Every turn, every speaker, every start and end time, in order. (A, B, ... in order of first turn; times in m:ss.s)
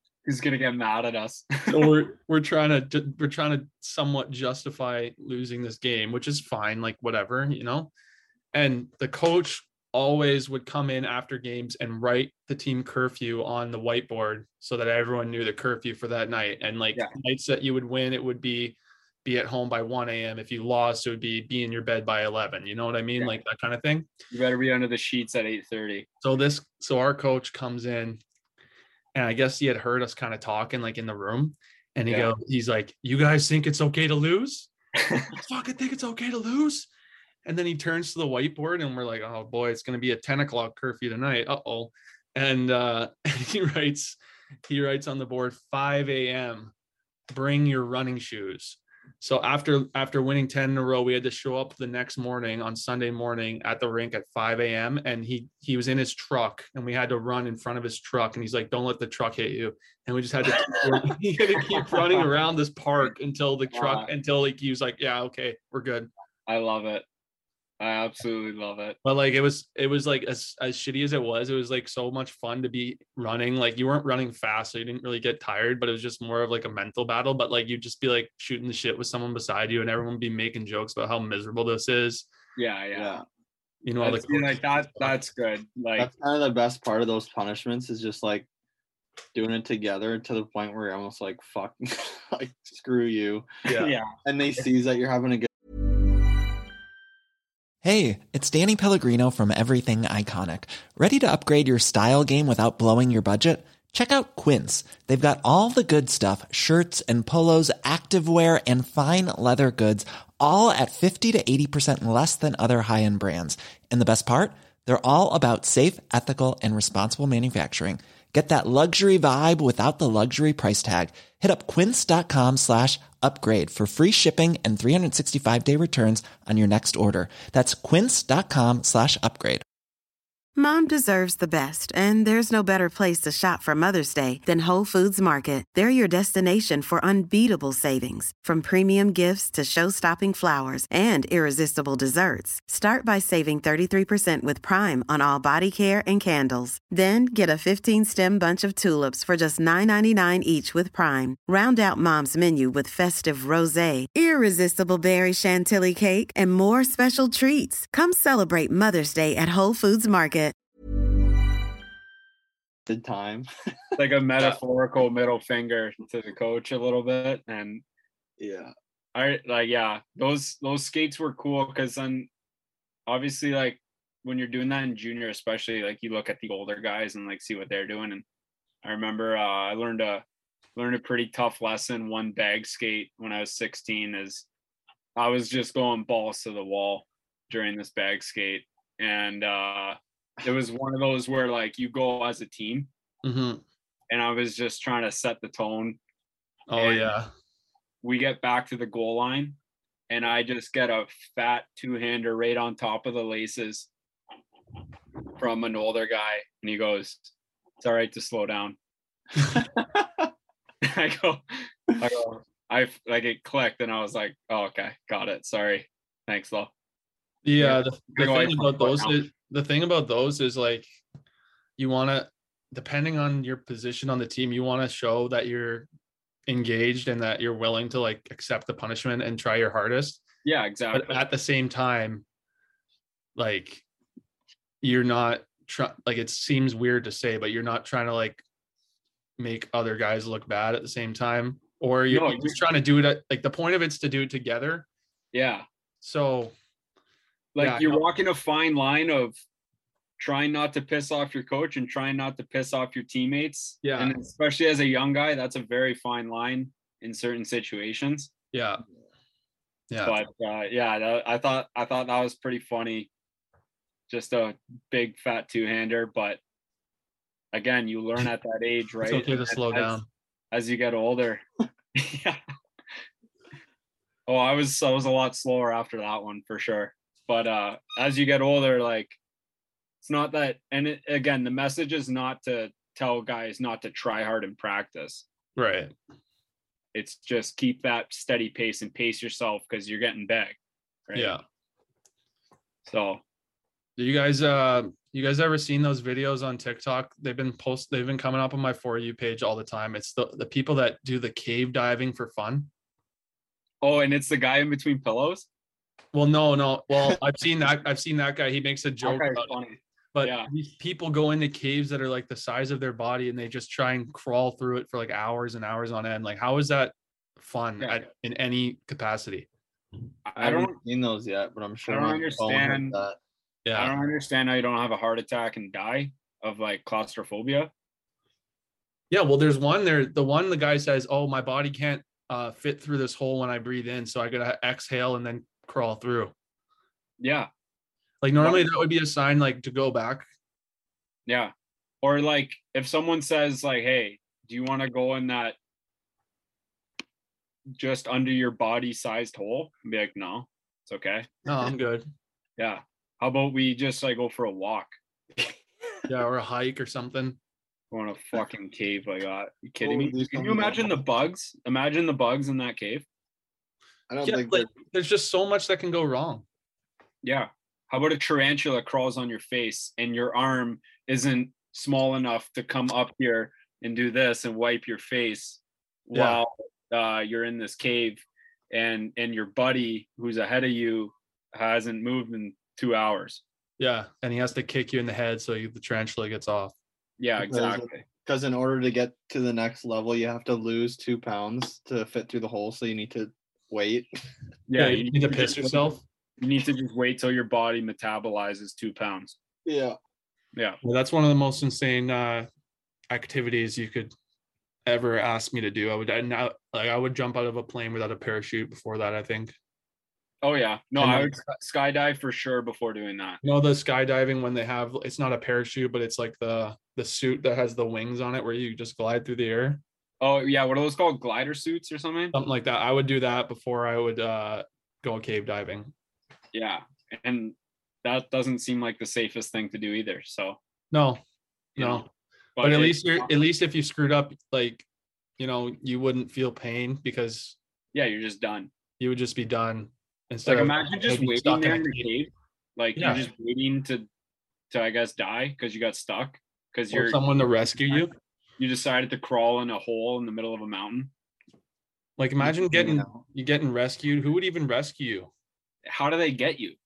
0:00.2-0:01.9 A
0:01.7-0:07.9 B
0:08.5-0:24.1 B
0:24.3-0:26.1 A
0:26.2-0:28.2 B
0:29.1-0:34.7 B
0:35.0-0:35.3 A
0:35.3-0:36.9 B
0:37.4-0:46.7 B
0:47.3-1:06.1 B
1:01.7-1:02.2 A
1:03.7-1:04.1 A
1:06.5-1:07.0 A
1:07.8-1:09.0 A
1:09.0-1:22.3 B
1:22.6-1:23.2 A
1:22.9-1:23.2 C
1:23.8-1:25.2 B
1:24.0-1:26.1 A
1:26.0-1:28.5 C
1:29.3-1:33.5 C
1:33.7-1:34.0 B
1:33.7-1:34.1 A
1:34.2-1:35.5 C
1:37.8-2:09.6 D
2:10.6-2:40.5 E
2:42.9-2:43.5 C
2:44.0-2:47.8 A
2:48.4-2:48.7 C
2:49.1-2:52.3 A
2:53.1-2:58.2 A
2:58.8-3:00.2 A
3:00.8-3:04.4 A
3:05.2-3:12.9 A
3:13.2-3:13.6 B
3:14.1-3:16.0 A
3:16.7-3:17.3 B
3:16.8-3:17.1 A
3:18.0-3:19.6 A
3:20.1-3:23.9 A
3:25.4-3:28.8 A
3:30.8-3:36.7 A
3:37.4-3:40.8 B
3:37.6-3:39.3 A
3:41.8-3:45.9 B
3:46.5-3:50.2 B
3:50.4-3:51.2 A
3:50.9-3:52.2 B
3:53.4-3:53.8 B
3:54.8-3:58.4 B
3:59.4-4:04.8 B
4:02.1-4:02.6 A
4:05.3-4:05.6 A
4:06.0-4:06.5 B
4:07.5-4:09.4 A
4:07.6-4:08.0 B
4:10.2-4:18.3 A
4:13.8-4:14.2 B
4:18.5-4:18.8 B
4:19.9-4:20.2 B
4:20.0-4:23.1 A
4:24.1-4:26.4 A
4:27.5-4:30.0 A
4:29.0-4:30.0 B
4:30.5-4:31.4 A
4:31.9-4:32.4 A
4:34.3-4:39.2 A
4:40.0-4:45.2 A
4:45.6-4:45.9 B
4:46.9-4:50.6 A
4:51.1-4:51.4 A
4:51.1-4:51.4 B
4:52.8-4:53.2 A
4:54.0-5:02.7 B
5:03.8-5:05.4 A
5:06.1-5:09.5 B
5:09.0-5:10.5 A
5:10.1-5:19.5 B
5:17.8-5:18.0 A
5:20.2-5:20.8 A
5:20.4-5:23.2 C
5:21.9-5:23.0 A
5:23.6-5:24.0 B
5:23.7-5:27.7 A
5:29.1-5:36.3 B
5:37.2-5:37.5 A
5:38.2-5:40.2 B
5:38.4-5:38.7 A
5:41.3-5:45.6 A
5:47.7-5:51.3 A
5:51.4-5:52.1 B
5:52.6-5:54.9 A
5:56.1-5:57.4 B
5:57.9-6:03.0 A
5:59.8-6:01.0 C
6:04.1-6:04.7 C
6:04.2-6:06.4 B
6:07.2-6:23.4 A
6:16.1-6:16.4 B
6:23.8-6:26.7 B
6:27.2-6:28.0 A
6:27.4-6:34.1 C
6:34.7-6:35.9 A
6:34.8-6:36.0 B
6:36.4-6:39.4 A
6:39.6-6:40.0 C
6:40.8-6:42.5 B
6:43.1-6:44.1 B
6:44.8-6:49.5 B
6:50.4-6:53.4 A
6:51.0-6:51.4 B
6:53.4-6:59.8 B
7:00.2-7:02.4 A
7:02.3-7:05.9 B
7:06.5-7:10.6 A
7:10.9-7:11.2 B
7:11.8-7:12.0 A
7:11.8-7:12.1 B
7:12.6-7:13.3 A
7:12.6-7:14.8 B
7:15.4-7:17.6 B
7:17.9-7:18.7 A
7:19.0-7:22.1 B
7:20.4-7:24.1 A
7:23.0-7:23.2 B
7:24.7-7:27.2 A
7:26.9-7:28.1 B
7:28.6-7:31.1 A
7:32.2-7:35.3 B
7:32.4-7:33.2 C
7:35.8-7:36.8 A